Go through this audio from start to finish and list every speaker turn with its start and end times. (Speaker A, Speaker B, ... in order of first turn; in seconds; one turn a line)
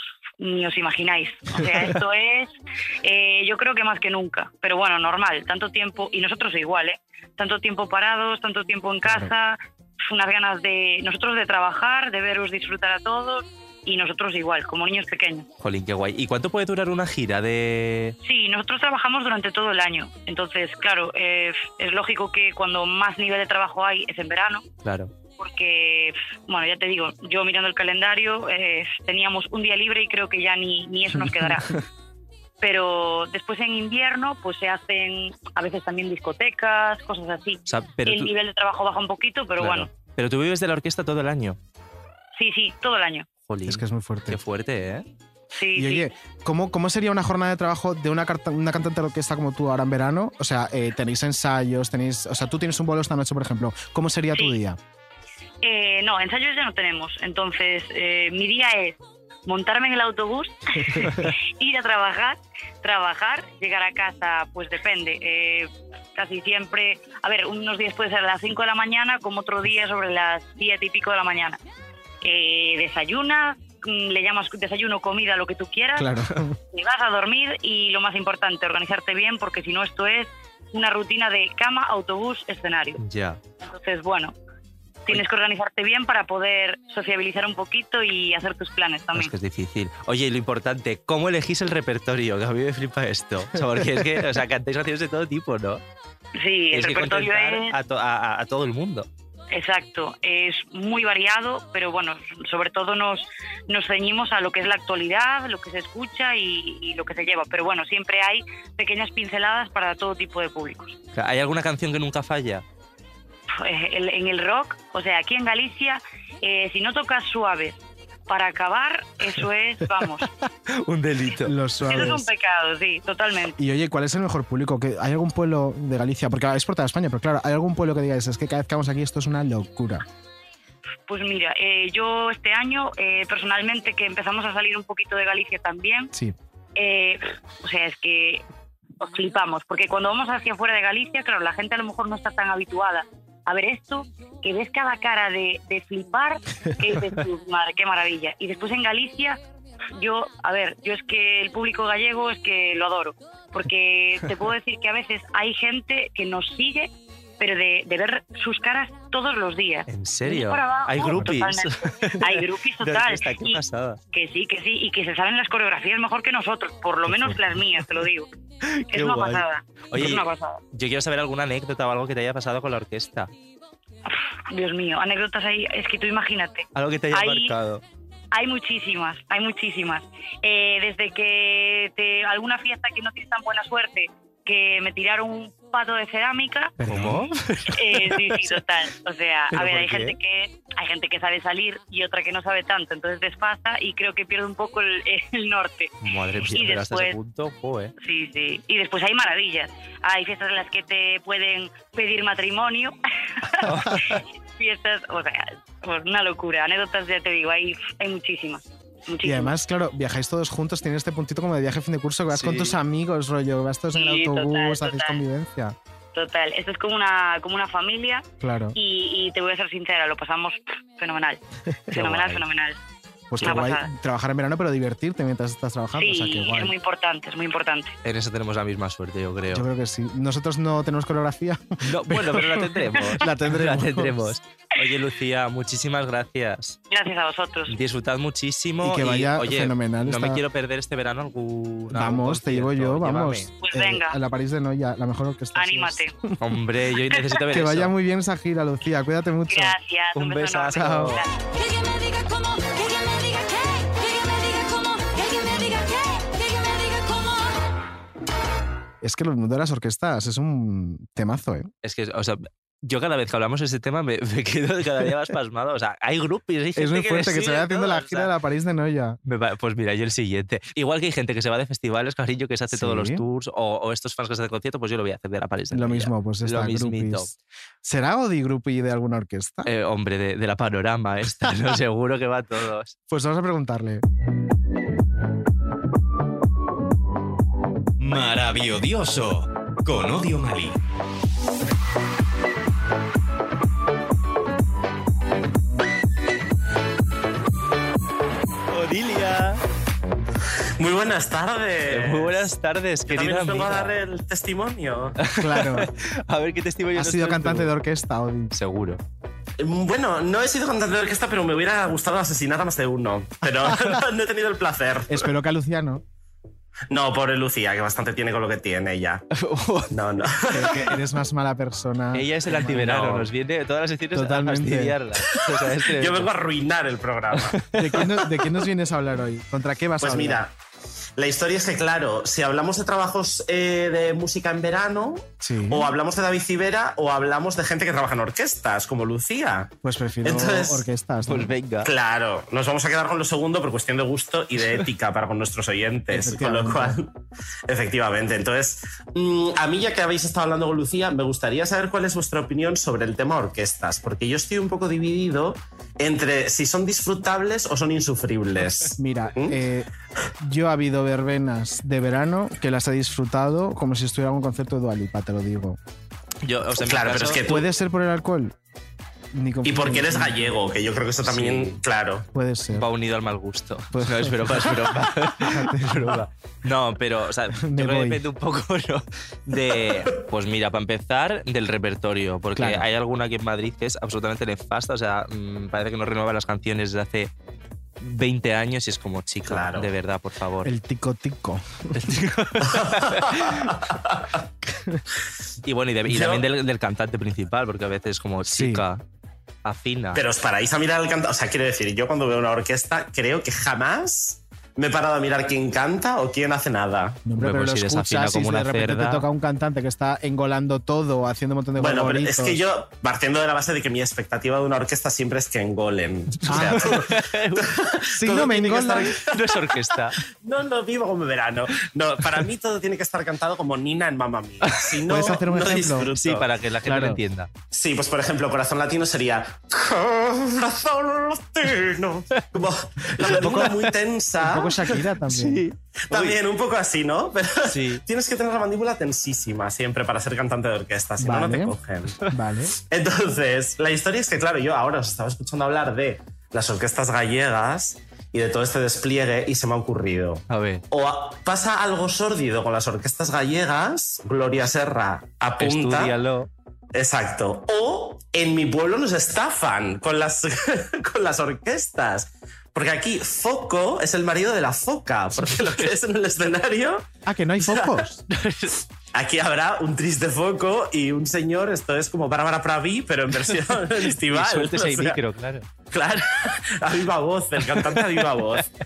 Speaker A: 0.4-15.5
Speaker B: 9.1-9.3
Speaker C: 15.6-18.1
Speaker A: 18.2-24.6
Speaker C: 24.8-25.1
Speaker A: 25.4-31.7
Speaker A: 32.6-39.9
Speaker C: 37.6-38.3
Speaker C: 39.6-41.6
Speaker A: 42.4-43.3
Speaker C: 43.5-45.0
Speaker B: 43.6-44.4
Speaker A: 45.5-46.1
Speaker B: 45.7-54.8
Speaker A: 55.6-71.6
Speaker A: 72.2-76.1
Speaker B: 76.0-76.6
Speaker A: 76.7-83.0
Speaker C: 83.0-83.4
Speaker A: 83.6-84.3
Speaker A: 85.0-89.3
Speaker C: 89.1-95.8
Speaker A: 96.4-97.8
Speaker C: 96.7-99.1
Speaker A: 99.5-111.0
Speaker C: 111.1-112.6
Speaker A: 113.5-120.3
Speaker C: 120.7-121.5
Speaker B: 121.4-122.3
Speaker A: 121.8-123.6
Speaker B: 123.6-130.0
Speaker A: 131.1-136.1
Speaker A: 136.8-138.4
Speaker A: 139.0-149.4
Speaker A: 149.9-163.6
Speaker C: 159.9-164.0
Speaker A: 164.1-168.3
Speaker B: 167.1-167.5
Speaker C: 168.6-173.3
Speaker A: 168.9-170.6
Speaker A: 174.1-177.5
Speaker C: 176.7-177.8
Speaker A: 178.3-186.8
Speaker B: 186.8-187.3
Speaker C: 186.8-188.6
Speaker A: 187.7-197.2
Speaker C: 189.5-190.2
Speaker C: 196.0-197.9
Speaker A: 198.0-209.5
Speaker C: 203.6-204.2
Speaker B: 209.2-215.8
Speaker C: 212.3-212.8
Speaker A: 213.9-215.2
Speaker A: 216.1-222.8
Speaker B: 218.4-218.8
Speaker C: 221.9-222.4
Speaker B: 223.3-226.7
Speaker A: 223.4-223.9
Speaker A: 226.0-227.9
Speaker C: 228.0-229.7
Speaker B: 229.5-234.3
Speaker C: 231.8-236.8
Speaker A: 236.9-237.7
Speaker C: 237.7-243.5
Speaker B: 238.8-240.4
Speaker B: 241.9-246.4
Speaker A: 243.6-244.2
Speaker A: 245.5-246.1
Speaker C: 246.4-247.9
Speaker B: 247.4-249.8
Speaker A: 249.5-251.3
Speaker C: 250.1-251.2
Speaker B: 250.7-251.2
Speaker D: 251.6-257.5
Speaker B: 259.0-261.7
Speaker C: 261.8-268.3
Speaker B: 266.8-269.2
Speaker C: 269.2-277.3
Speaker B: 272.7-273.2
Speaker B: 275.7-279.7
Speaker C: 279.6-282.9
Speaker B: 283.1-284.0
Speaker E: 288.0-290.8
Speaker C: 298.7-299.6
Speaker F: 300.8-302.5
Speaker C: 301.9-304.0
Speaker F: 303.1-305.2
Speaker C: 305.2-307.7
Speaker B: 305.4-305.9
Speaker B: 306.9-308.5
Speaker C: 308.5-309.0
Speaker F: 309.6-315.3
Speaker B: 315.1-316.0
Speaker F: 316.9-319.2
Speaker C: 319.3-319.9
Speaker F: 319.9-320.9
Speaker B: 320.5-323.3
Speaker C: 322.1-326.3
Speaker B: 324.1-325.0
Speaker F: 325.2-327.7
Speaker C: 327.4-328.1
Speaker B: 327.7-330.4
Speaker F: 330.0-330.5
Speaker F: 331.2-339.7
Speaker B: 335.4-335.9
Speaker B: 339.8-341.5
Speaker F: 340.2-340.8
Speaker C: 341.2-341.9
Speaker F: 341.8-347.1
Speaker B: 346.1-347.0
Speaker F: 347.7-359.6
Speaker B: 358.9-359.9
Speaker B: 360.4-365.8
Speaker C: 366.4-367.4
Speaker F: 366.8-367.6
Speaker B: 367.4-368.5
Speaker B: 369.3-370.6
Speaker F: 369.6-372.3
Speaker C: 371.2-371.8
Speaker B: 372.3-372.9
Speaker C: 372.7-387.3
Speaker B: 373.9-376.2
Speaker B: 377.5-378.2
Speaker B: 382.5-382.9
Speaker C: 388.0-390.7
Speaker F: 389.4-389.9
Speaker B: 390.6-391.9
Speaker C: 391.9-393.7
Speaker F: 392.6-394.3
Speaker C: 395.6-399.0
Speaker F: 396.1-396.5
Speaker B: 398.4-398.8
Speaker C: 399.6-400.2
Speaker F: 400.1-407.2
Speaker B: 407.2-412.6
Speaker C: 407.4-409.2
Speaker F: 411.8-419.8
Speaker C: 416.4-417.8
Speaker B: 416.5-416.9
Speaker B: 418.1-419.1
Speaker C: 419.0-420.2
Speaker F: 420.4-426.5
Speaker C: 424.6-427.5
Speaker B: 425.1-426.1
Speaker B: 426.8-427.2
Speaker F: 427.7-434.9
Speaker C: 433.2-433.9
Speaker B: 433.2-433.8
Speaker B: 434.4-435.6
Speaker C: 435.2-436.4
Speaker F: 436.1-442.2
Speaker C: 437.6-438.0
Speaker B: 441.2-441.8
Speaker B: 442.3-442.7
Speaker F: 442.8-456.2
Speaker C: 450.5-450.8
Speaker C: 455.6-456.5
Speaker F: 456.9-467.1
Speaker C: 465.4-465.9
Speaker B: 467.2-468.2
Speaker F: 467.6-468.0
Speaker C: 468.3-468.8
Speaker F: 469.1-475.2
Speaker C: 473.5-475.7
Speaker F: 475.9-478.7
Speaker C: 477.7-478.0